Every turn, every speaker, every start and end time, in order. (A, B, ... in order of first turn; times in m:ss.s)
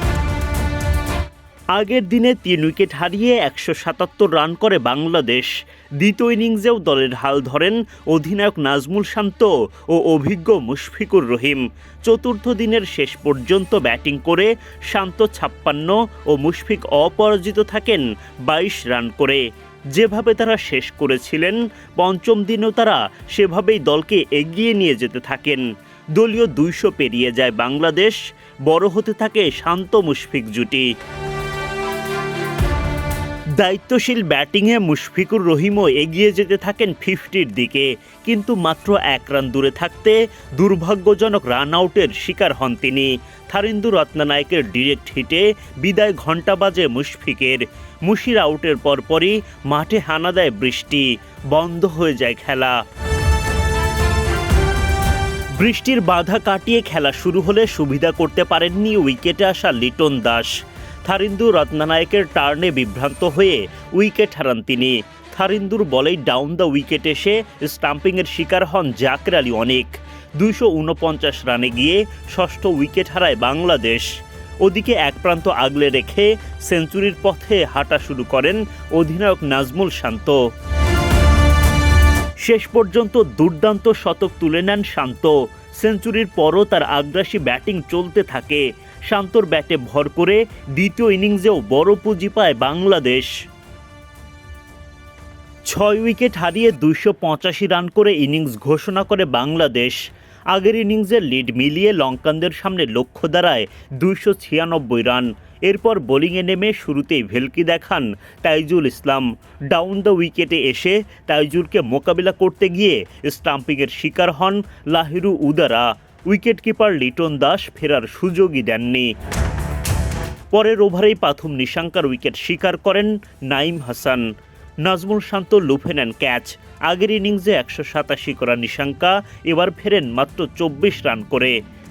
0:01.7-0:19.4 A
0:19.9-0:25.6 A
0:26.2-0:30.9 A
0:33.6-0:52.8 A
0:55.6-1:00.5 A
1:01.0-1:14.1 A
1:14.6-1:20.4 A
1:22.4-1:33.3 A
1:35.7-1:40.0 A
1:40.5-1:59.1 A
2:00.5-2:04.2 A
2:04.8-2:11.6 A